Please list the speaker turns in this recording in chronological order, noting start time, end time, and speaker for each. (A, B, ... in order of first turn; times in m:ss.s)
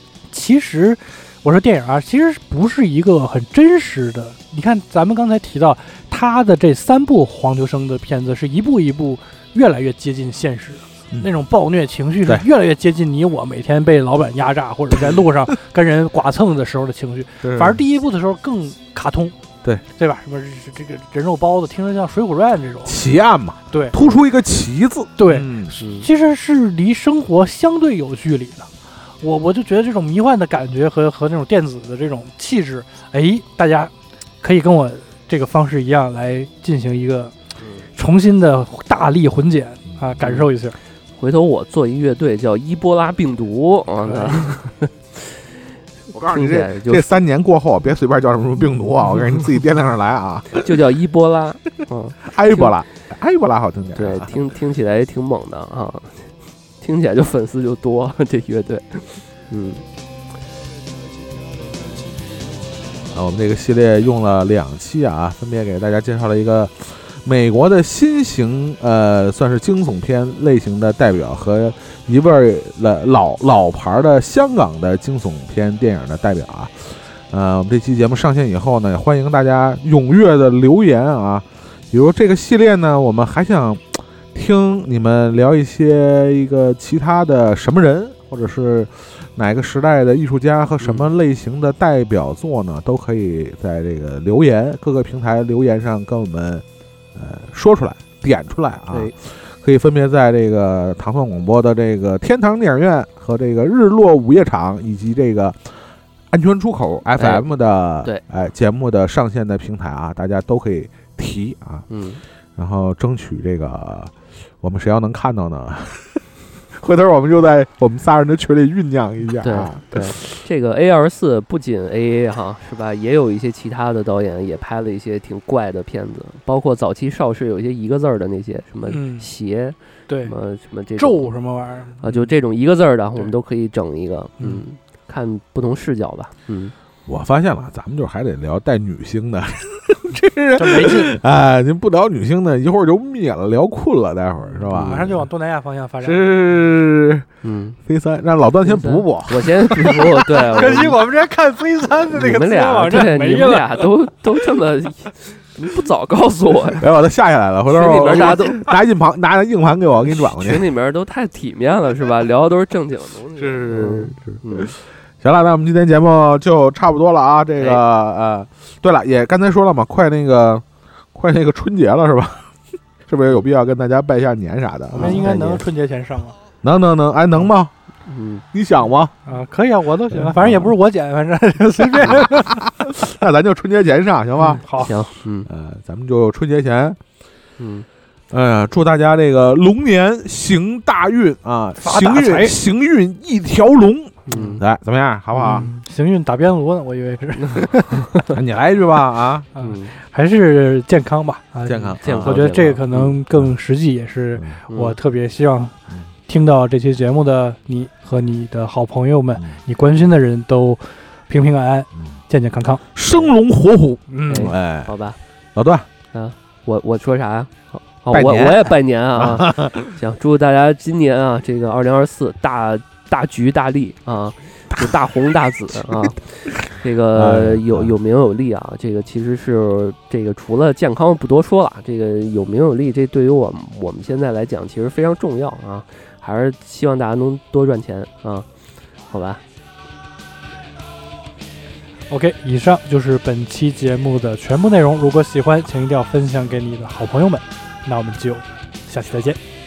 0:00.3-0:19.4 A
0:17.4-0:17.8 B
0:19.9-0:23.0 A
0:22.8-0:25.8 B
0:23.7-0:24.0 A
0:25.2-0:37.3 A
0:25.8-0:26.1 C
0:37.6-0:37.9 C
0:38.0-0:40.8 A
0:40.2-0:40.5 C
0:41.2-0:45.4 C
0:46.1-0:50.7 B
0:46.3-0:47.1 C
0:50.5-0:52.8 C
0:52.3-0:54.3 B
0:54.0-0:59.8 C
1:03.1-1:36.6 B
1:30.8-1:31.1 C
1:37.2-1:45.7 B
1:46.3-1:51.9 B
1:47.2-1:47.4 C
1:51.9-1:52.2 C
1:52.6-1:56.2 B
1:56.8-2:00.4 B
1:59.4-2:11.3 C
2:08.9-2:09.3 A
2:10.1-2:10.3 A
2:11.0-2:12.2 A
2:12.0-2:16.7 C
2:17.1-2:25.2 B
2:20.6-2:21.2 A
2:24.6-2:25.0 C
2:24.7-2:26.3 A
2:26.0-2:27.3 B
2:27.4-2:27.8 C
2:27.9-2:30.1 B
2:28.6-2:31.0 C
2:29.8-2:33.8 A
2:32.0-2:36.9 C
2:36.8-2:40.7 B
2:37.7-2:38.8 C
2:40.0-2:44.7 C
2:43.4-2:52.5 B
2:53.1-2:55.6 B
2:54.9-2:56.4 A
2:56.6-2:57.7 B
2:58.1-2:58.4 C
2:58.5-2:59.1 B
2:59.3-3:02.9 A
3:00.2-3:00.7 B
3:01.9-3:04.6 B
3:04.4-3:04.9 A
3:04.8-3:05.5 C
3:05.5-3:07.0 B
3:07.6-3:07.9 C
3:08.3-3:15.7 B
3:11.8-3:12.6 A
3:14.3-3:14.6 C
3:15.3-3:18.1 A
3:17.4-3:18.3 C
3:18.3-3:19.5 B
3:19.6-3:25.7 A
3:19.6-3:19.9 C
3:21.7-3:22.6 B
3:22.0-3:23.2 C
3:24.7-3:25.0 C
3:26.3-3:32.8 A
3:32.9-3:34.9 B
3:34.1-3:34.5 A
3:34.3-3:35.2 C
3:35.6-3:35.9 B
3:36.1-3:58.4 C
3:38.1-3:39.9 B
3:45.9-3:47.9 B
3:59.1-3:59.4 C
4:02.1-4:09.4 A